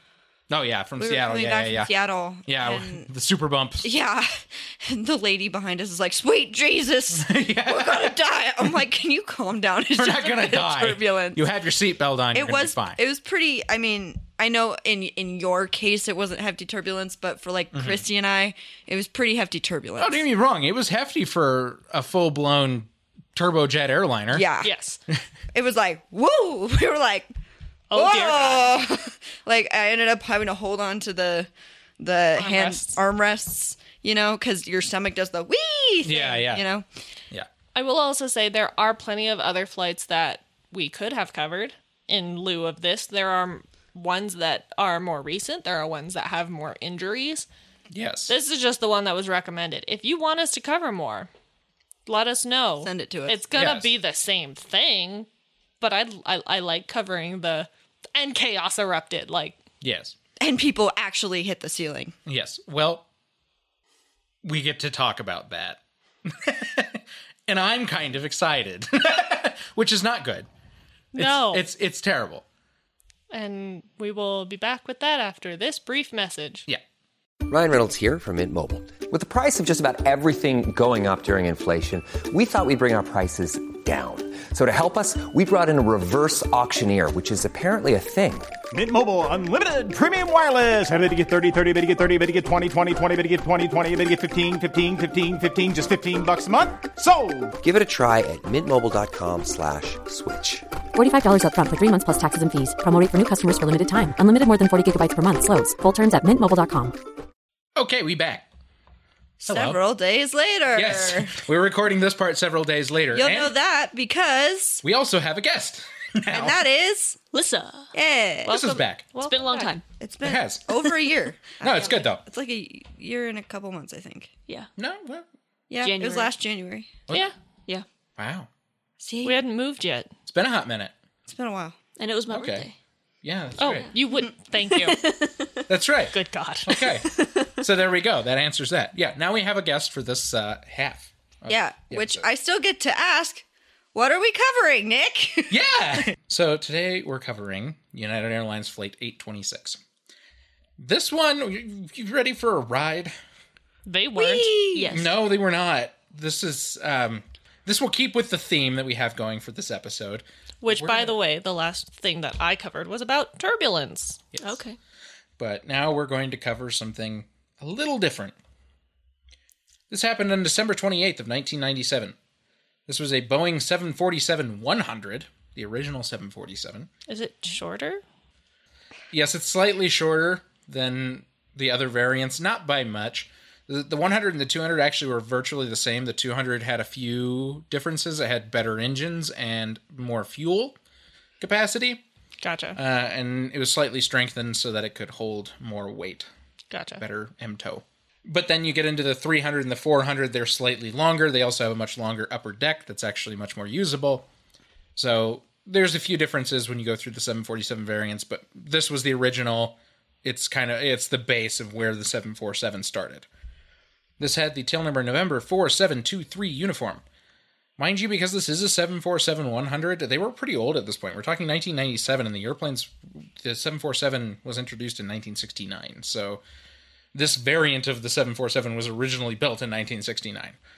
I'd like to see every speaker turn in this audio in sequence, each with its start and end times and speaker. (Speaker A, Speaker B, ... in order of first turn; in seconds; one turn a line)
Speaker A: 0.5-1.9
Speaker B: 1.0-3.1
Speaker A: 2.4-3.9
Speaker B: 3.8-11.4
Speaker A: 7.1-8.2
Speaker A: 9.9-13.0
Speaker B: 12.3-20.2
Speaker A: 17.7-18.0
Speaker A: 20.0-24.4
Speaker B: 24.3-24.7
Speaker C: 24.6-25.0
Speaker B: 25.5-27.3
Speaker C: 27.9-28.7
Speaker B: 27.9-36.9
Speaker C: 32.4-33.0
Speaker A: 36.0-36.6
Speaker C: 37.7-47.5
Speaker A: 47.9-48.3
Speaker C: 48.3-51.3
Speaker C: 52.0-55.3
Speaker B: 52.8-53.4
Speaker A: 53.5-53.9
Speaker C: 55.8-59.6
Speaker A: 59.8-60.1
Speaker B: 60.4-62.1
Speaker A: 62.2-63.0
Speaker A: 64.4-70.5
Speaker C: 71.1-71.6
Speaker A: 71.2-72.4
Speaker C: 73.3-76.7
Speaker D: 77.5-88.5
Speaker E: 88.7-97.6
Speaker D: 97.6-100.7
Speaker F: 100.9-107.0
Speaker A: 107.8-108.5
Speaker B: 109.4-111.4
Speaker A: 109.5-109.8
Speaker A: 110.7-113.5
Speaker B: 113.1-114.8
Speaker A: 114.8-116.6
Speaker B: 116.3-117.2
Speaker G: 117.3-117.9
Speaker B: 117.9-118.5
Speaker A: 118.5-119.1
Speaker G: 118.5-119.8
Speaker C: 119.1-119.8
Speaker B: 120.0-124.3
Speaker A: 120.2-120.7
Speaker A: 121.6-122.2
Speaker A: 124.8-125.2
Speaker B: 125.7-127.0
Speaker G: 125.8-126.3
Speaker A: 128.2-128.5
Speaker B: 129.0-129.4
Speaker C: 129.2-130.1
Speaker A: 130.3-130.9
Speaker B: 131.3-131.8
Speaker G: 132.0-132.8
Speaker A: 132.3-132.7
Speaker A: 133.2-133.9
Speaker C: 133.6-135.0
Speaker G: 134.8-135.5
Speaker A: 135.7-142.2
Speaker C: 136.1-136.7
Speaker G: 137.2-137.5
Speaker B: 141.5-145.6
Speaker A: 145.5-149.8
Speaker A: 150.8-153.1
Speaker C: 153.8-154.5
Speaker B: 154.2-154.9
Speaker G: 154.7-155.1
Speaker A: 154.9-161.2
Speaker C: 160.6-164.2
Speaker A: 164.3-164.6
Speaker G: 164.4-164.8
Speaker A: 165.4-168.3
Speaker A: 169.9-172.1
Speaker A: 172.9-176.9
Speaker C: 177.1-178.0
Speaker A: 179.1-190.8
Speaker A: 191.4-192.0
Speaker C: 192.4-192.8
Speaker A: 192.8-196.3
Speaker C: 196.7-197.0
Speaker A: 197.0-204.2
Speaker A: 204.9-213.2
Speaker A: 214.2-217.0
Speaker A: 217.8-226.4
Speaker A: 227.1-230.6